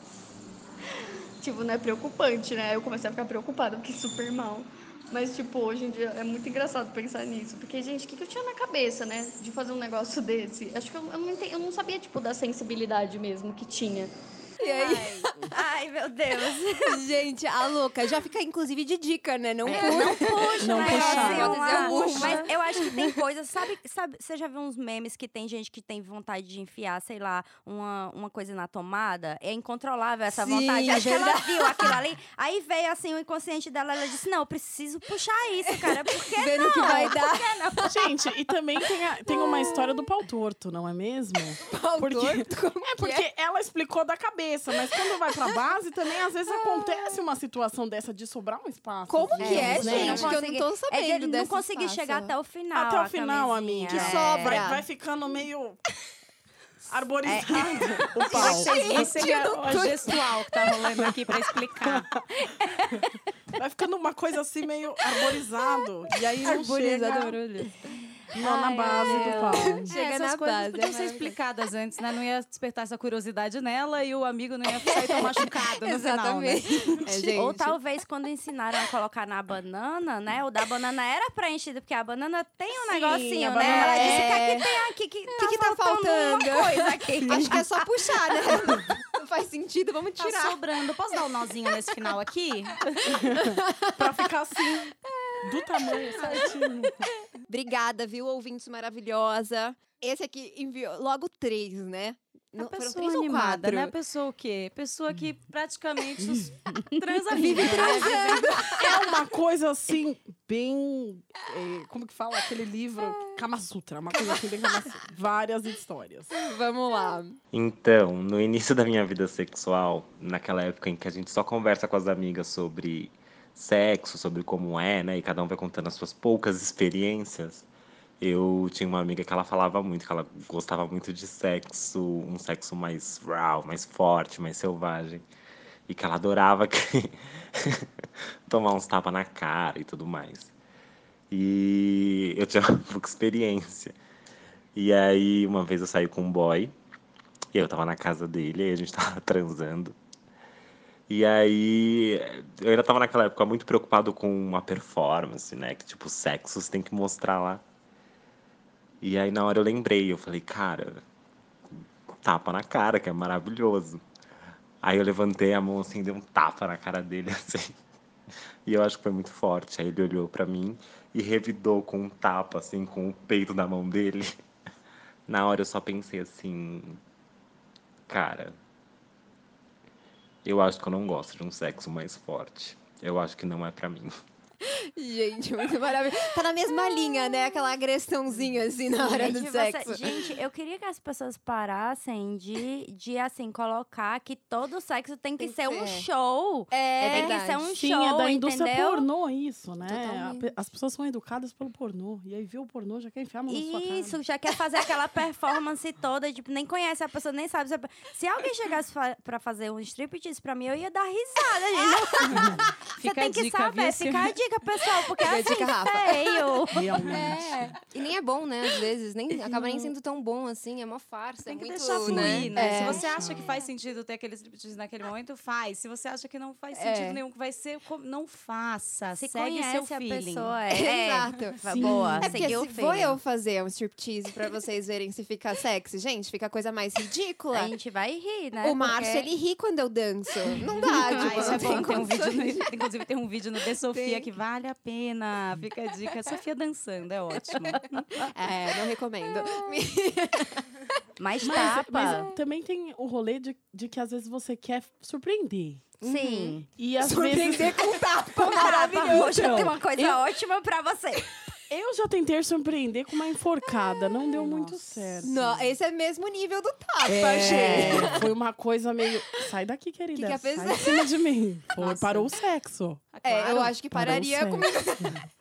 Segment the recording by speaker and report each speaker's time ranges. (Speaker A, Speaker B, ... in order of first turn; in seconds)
Speaker A: 1.4-14.1
Speaker B: 14.6-15.5, 16.7-23.0, 30.3-31.9, 35.9-38.1, 41.6-43.2, 49.1-52.3, 53.9-54.9, 58.2-60.3, 66.1-67.4, 68.5-71.3, 77.0-77.8, 83.6-84.7, 85.3-90.6, 93.4-94.2, 97.5-103.9, 107.3-109.0, 116.3-117.4, 184.7-190.2, 195.4-196.0, 196.7-197.6, 199.9-200.5, 215.2-216.1, 222.6-223.0, 230.7-237.8, 238.6-242.7, 243.9-244.3, 248.3-250.7, 256.0-259.7, 265.2-268.3, 270.1-271.1, 271.8-272.3, 273.2-275.2
Speaker C: 14.7-17.0, 19.7-37.9, 49.4-54.8, 57.2-58.5, 62.6-63.0, 65.2-65.8, 68.6-69.7, 77.3-87.9, 106.7-107.7, 189.0-199.1, 203.5-217.0, 222.7-222.9, 229.2-233.2, 237.5-239.3, 240.8-242.1, 251.2-252.3, 256.0-256.7, 258.4-261.3, 264.4-264.8, 267.4-268.2
Speaker D: 19.7-22.3, 37.8-50.4, 52.7-55.8, 56.9-59.8, 61.8-62.2, 62.9-67.4, 68.3-69.9, 82.8-84.4, 93.1-97.1, 108.8-116.3, 197.7-204.2, 216.7-217.8, 222.0-223.5, 231.6-232.5, 251.4-255.9, 256.8-260.1, 261.7-265.7, 267.1-273.0, 273.7-275.2
Speaker E: 49.4-50.4, 75.8-76.5, 197.1-197.4, 217.7-223.0, 226.8-227.2
Speaker F: 58.3-62.1, 69.9-76.9, 90.2-93.0, 102.6-108.7, 212.3-214.4, 221.5-230.6, 241.2-248.0, 273.1-273.7
Speaker G: 117.5-127.7, 128.2-135.2, 135.9-137.9, 138.5-140.5, 141.3-143.9, 144.8-146.7, 147.5-149.9, 151.1-157.6, 159.0-161.0, 162.2-164.0, 164.8-167.7, 168.7-174.3, 175.3-177.0, 178.1-178.6, 180.4-184.2